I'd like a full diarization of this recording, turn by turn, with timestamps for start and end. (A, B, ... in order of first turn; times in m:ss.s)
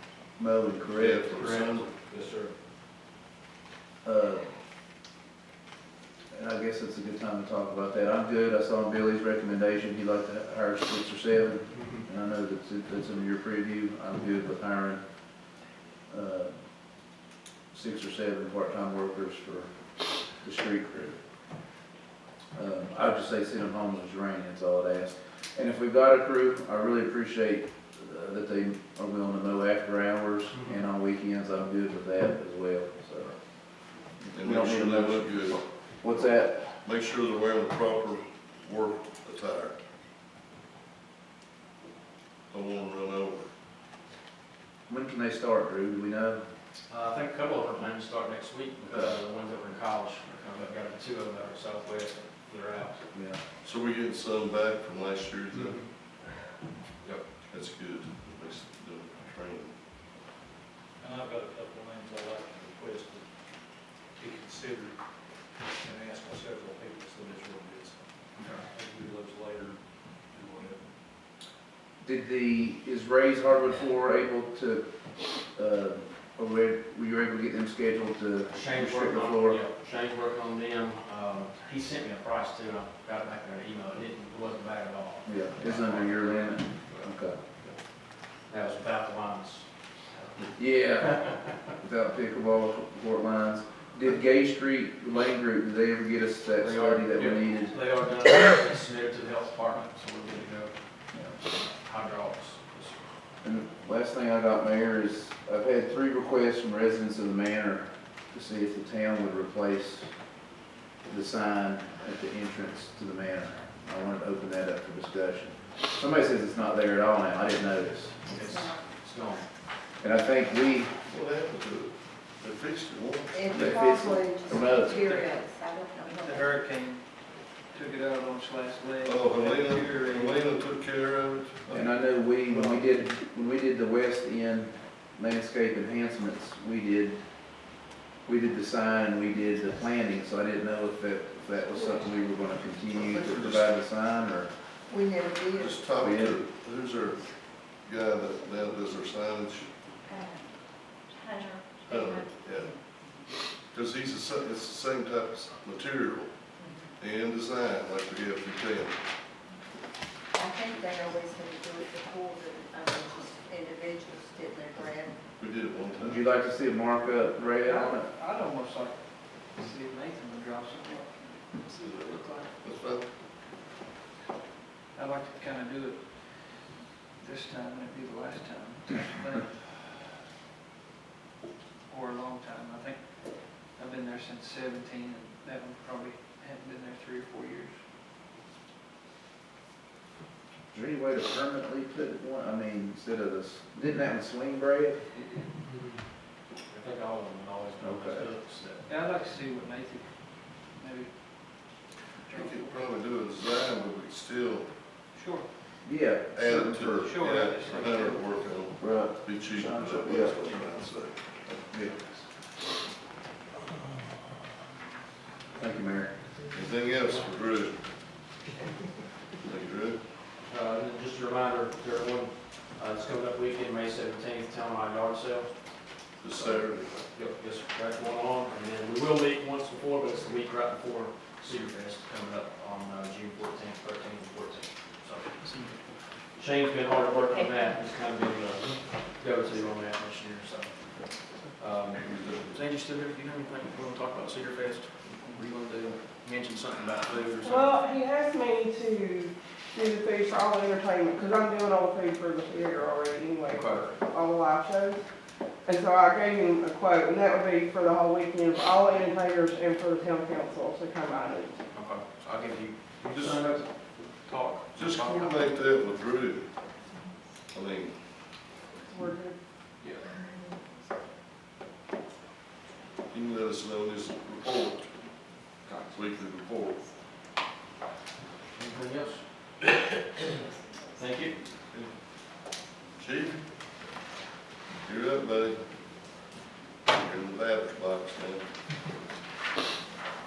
0:00.4-0:01.4 A
0:00.9-0:01.9 B
0:01.3-0:02.5 C
0:04.0-0:04.5 A
0:06.3-0:15.0 A
0:16.1-0:16.5 A
0:17.7-0:19.7 A
0:20.4-0:21.2 A
0:22.6-0:33.4 A
0:30.5-0:30.8 C
0:34.2-0:36.8 A
0:34.3-0:35.6 B
0:36.8-0:39.8 B
0:42.5-0:43.5 B
0:44.9-0:46.4 A
0:46.9-0:53.1 C
0:53.1-0:53.4 A
0:53.6-0:55.8 B
0:55.5-0:55.9 C
0:57.5-0:59.7 B
1:01.0-1:03.3 D
1:04.1-1:05.0 D
1:05.6-1:10.9 D
1:12.0-1:14.9 A
1:15.4-1:19.6 A
1:18.5-1:27.8 C
1:25.2-1:27.4 A
1:28.4-1:31.5 C
1:30.6-1:37.8 A
1:36.6-1:40.7 C
1:41.4-1:43.0 C
1:43.4-1:50.2 A
1:51.0-1:58.2 A
1:58.2-1:59.5 C
1:58.3-1:58.8 E
2:00.0-2:01.0 A
2:01.1-2:03.4 B
2:03.3-2:06.5 E
2:03.5-2:05.0 A
2:04.9-2:05.2 F
2:06.0-2:07.1 F
2:07.7-2:10.5 F
2:09.0-2:12.0 B
2:11.7-2:17.2 A
2:12.5-2:12.8 F
2:18.2-2:24.5 A
2:21.8-2:22.2 E
2:22.9-2:23.7 B
2:24.9-2:25.8 E
2:25.5-2:29.7 B
2:26.0-2:26.4 A
2:30.1-2:30.4 E
2:31.1-2:32.2 E
2:31.8-2:32.8 B
2:33.7-2:36.3 B
2:36.6-2:36.8 E
2:37.0-2:38.9 B
2:40.4-2:45.2 E
2:45.4-2:46.3 B
2:46.0-2:48.1 A
2:47.6-2:52.5 F
2:51.8-2:53.0 B
2:54.9-2:59.7 F
3:01.9-3:07.7 F
3:10.7-3:15.1 A
3:15.1-3:15.5 F
3:15.7-3:15.9 C
3:16.6-3:18.9 C
3:17.8-3:18.3 A
3:18.8-3:21.6 F
3:22.3-3:22.7 F
3:22.3-3:24.7 B
3:25.1-3:25.5 F
3:25.8-3:27.1 A
3:26.3-3:31.6 B
3:27.0-3:28.3 F
3:28.8-3:30.4 A
3:31.7-3:32.2 A
3:35.6-3:36.2 A
3:36.5-3:37.8 B
3:39.4-3:40.0 B
3:40.5-3:55.8 C
3:46.2-3:47.0 B
3:56.3-4:07.6 C
4:01.9-4:02.6 B
4:07.4-4:15.0 G
4:13.5-4:13.9 C
4:15.6-4:21.6 G
4:21.7-4:25.3 C
4:23.1-4:23.4 B
4:24.7-4:26.5 B
4:27.5-4:28.0 B
4:28.8-4:29.4 G
4:30.2-4:30.6 E
4:33.1-4:34.9 B
4:35.9-4:36.8 B
4:38.5-4:39.6 C
4:40.9-4:41.4 C
4:43.0-4:43.4 B
4:44.8-4:45.6 B
4:46.8-4:48.5 B